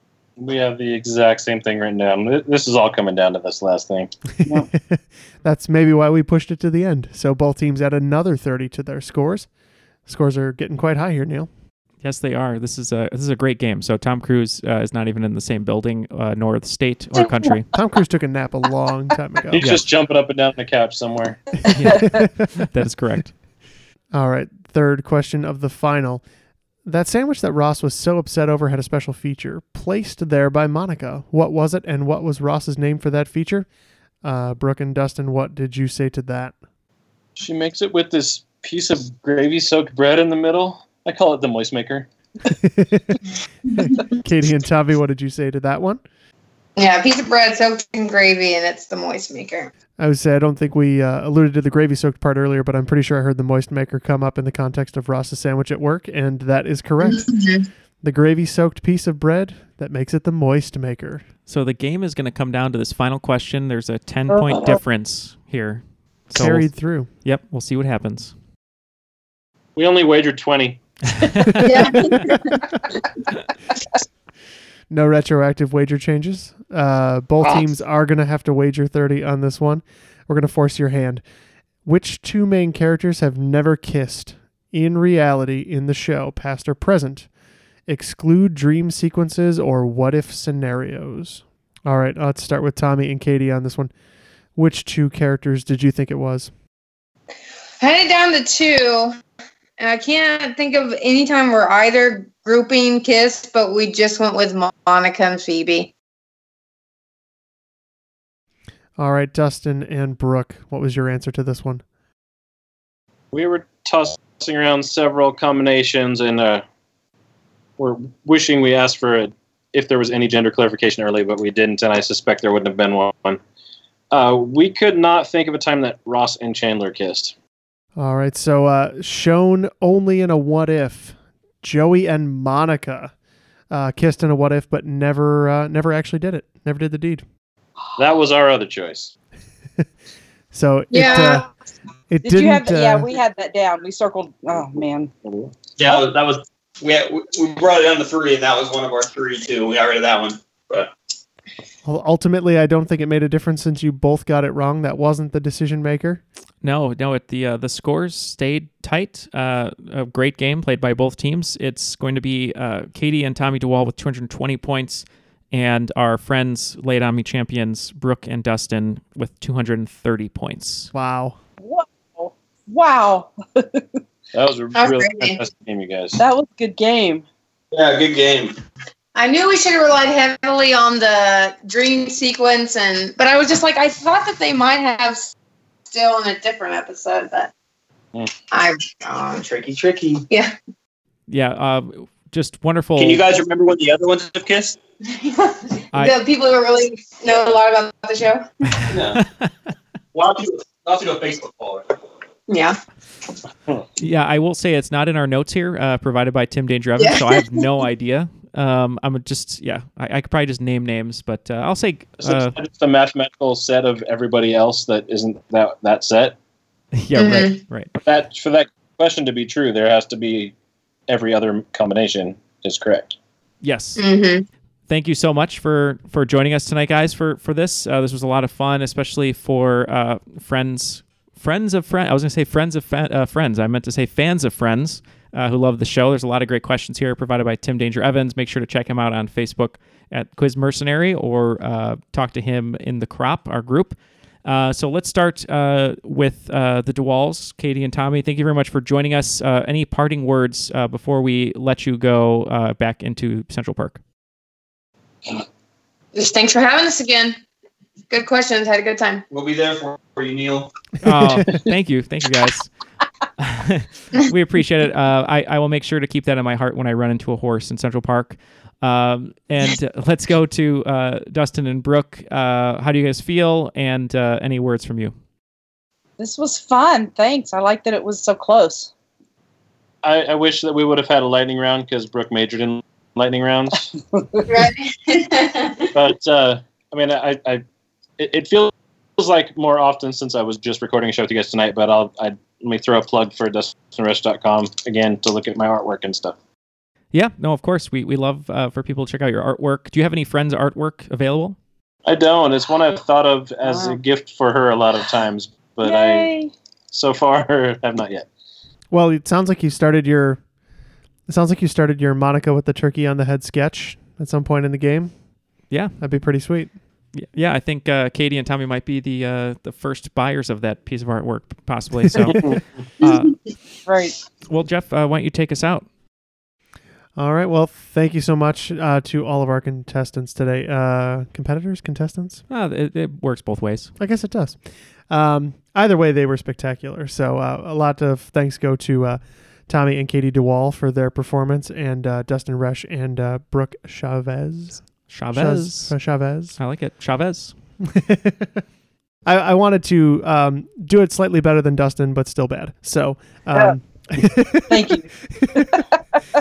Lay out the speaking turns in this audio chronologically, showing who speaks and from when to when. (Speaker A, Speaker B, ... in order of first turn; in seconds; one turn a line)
Speaker A: 0.4-4.1
Speaker B: 4.5-9.5
Speaker B: 10.1-11.5
Speaker C: 12.0-17.7
Speaker B: 17.7-19.7
Speaker A: 19.5-21.4
Speaker C: 21.7-23.3
Speaker B: 21.9-22.4
Speaker B: 24.1-26.2
Speaker B: 26.9-33.7
Speaker B: 34.2-36.5
Speaker A: 37.4-42.1
Speaker B: 42.5-43.2
Speaker B: 43.7-46.0
Speaker D: 46.8-49.7
Speaker B: 50.0-57.3
Speaker D: 57.0-57.6
Speaker B: 58.0-61.2
Speaker C: 61.5-68.3
Speaker E: 64.3-64.8
Speaker B: 66.3-67.1
Speaker A: 69.8-70.8
Speaker C: 71.4-71.7
Speaker D: 71.6-72.6
Speaker B: 71.7-72.6
Speaker B: 74.9-81.2
Speaker B: 81.8-87.3
Speaker B: 87.9-93.9
Speaker B: 94.6-96.5
Speaker D: 97.8-99.2
Speaker D: 99.8-105.9
Speaker B: 109.0-111.8
Speaker A: 113.3-116.6
Speaker A: 117.8-123.4
Speaker A: 124.1-127.3
Speaker B: 128.0-133.1
Speaker B: 133.7-137.2
Speaker A: 138.0-139.1
Speaker B: 140.5-141.5
Speaker D: 140.9-141.5
Speaker B: 142.1-143.1
Speaker E: 142.2-145.1
Speaker A: 145.2-145.5
Speaker F: 145.8-150.9
Speaker B: 151.8-156.2
Speaker C: 156.6-170.9
Speaker B: 170.9-171.4
Speaker E: 171.6-173.8
Speaker A: 174.3-176.2
Speaker D: 174.8-175.4
Speaker E: 176.2-177.3
Speaker F: 177.7-178.6
Speaker D: 179.2-185.3
Speaker D: 185.9-187.5
Speaker D: 188.5-189.4
Speaker F: 189.4-190.3
Speaker C: 191.3-193.2
Speaker F: 193.0-194.8
Speaker D: 195.1-198.5
Speaker C: 198.8-199.5
Speaker F: 198.9-199.2
Speaker F: 200.1-201.9
Speaker D: 202.5-202.8
Speaker C: 204.0-212.6
Speaker D: 207.0-207.4
Speaker A: 212.2-216.4
Speaker C: 216.9-217.9
Speaker D: 217.2-217.6
Speaker A: 218.0-220.5
Speaker A: 221.1-223.2
Speaker C: 223.6-224.0
Speaker D: 224.0-224.4
Speaker C: 224.9-254.0
Speaker D: 256.1-257.4
Speaker D: 258.1-259.2
Speaker F: 259.3-260.7
Speaker C: 261.0-262.7
Speaker C: 263.4-275.1
Speaker E: 276.2-278.9
Speaker A: 280.0-283.9
Speaker E: 284.0-284.5
Speaker D: 284.5-285.9
Speaker A: 285.9-287.6
Speaker A: 288.2-296.4
Speaker C: 297.1-301.6
Speaker A: 302.1-306.3
Speaker E: 303.6-304.0
Speaker E: 305.8-306.5
Speaker A: 306.9-308.3
Speaker B: 308.9-310.4
Speaker B: 311.3-315.1
Speaker C: 315.7-315.9
Speaker B: 316.0-316.8
Speaker C: 317.1-323.4
Speaker E: 323.9-324.2
Speaker C: 324.5-325.9
Speaker B: 327.2-332.4
Speaker C: 332.5-333.9
Speaker B: 334.0-346.6
Speaker C: 345.1-346.0
Speaker C: 346.6-347.5
Speaker B: 347.8-348.6
Speaker B: 349.3-355.6
Speaker E: 354.7-356.0